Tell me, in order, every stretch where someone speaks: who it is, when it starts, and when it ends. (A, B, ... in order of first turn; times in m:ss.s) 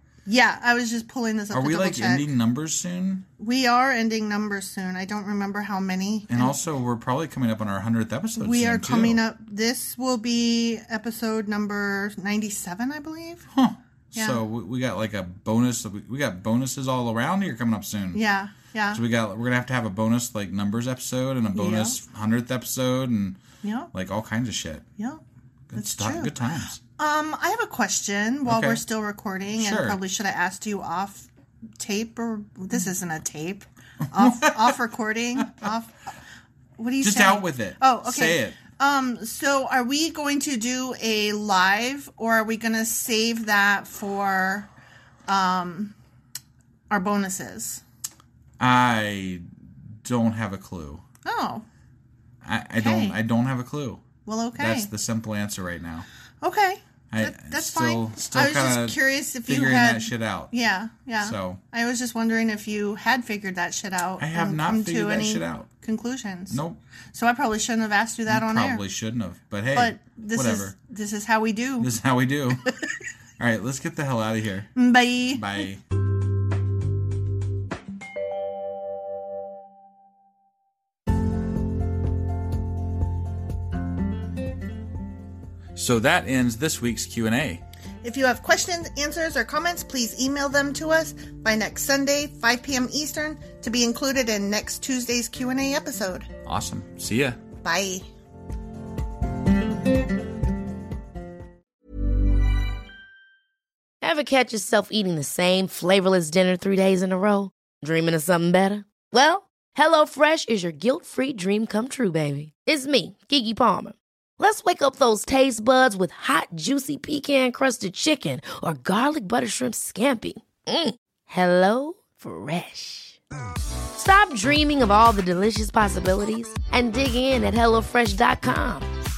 0:00.3-0:02.3 A
0:01.5-0:03.3 B
0:03.4-0:06.6 A
0:06.3-0:09.2 B
0:08.4-0:13.4 A
0:13.5-0:18.2 B
0:14.1-0:14.4 A
0:18.1-0:19.0 A
0:18.9-0:23.4 B
0:21.5-0:22.0 A
0:23.6-0:23.9 A
0:23.9-0:24.8 B
0:25.7-0:26.8 B
0:25.7-0:26.3 A
0:27.0-0:36.0 A
0:28.5-0:28.8 B
0:29.6-0:30.0 B
0:34.2-0:34.8 B
0:36.8-0:44.7 A
0:37.0-0:38.7 B
0:45.3-0:45.9 A
0:46.9-0:47.8 A
0:48.6-0:49.4 B
0:50.0-0:51.0 B
0:51.2-0:51.6 A
0:52.4-0:56.1 B
0:52.8-0:53.2 A
0:54.2-0:54.9 A
0:56.4-1:06.6 A
0:57.1-1:00.5 B
1:01.2-1:01.6 B
1:04.2-1:05.7 B
1:06.5-1:06.8 B
1:07.1-1:08.8 A
1:08.3-1:10.8 B
1:09.7-1:11.9 A
1:11.8-1:12.8 B
1:13.4-1:15.8 B
1:14.8-1:15.7 A
1:25.8-1:27.6 B
1:28.0-1:36.3 A
1:36.4-1:37.4 B
1:37.6-1:38.0 A
1:44.0-2:03.2 C
2:03.9-2:08.9 C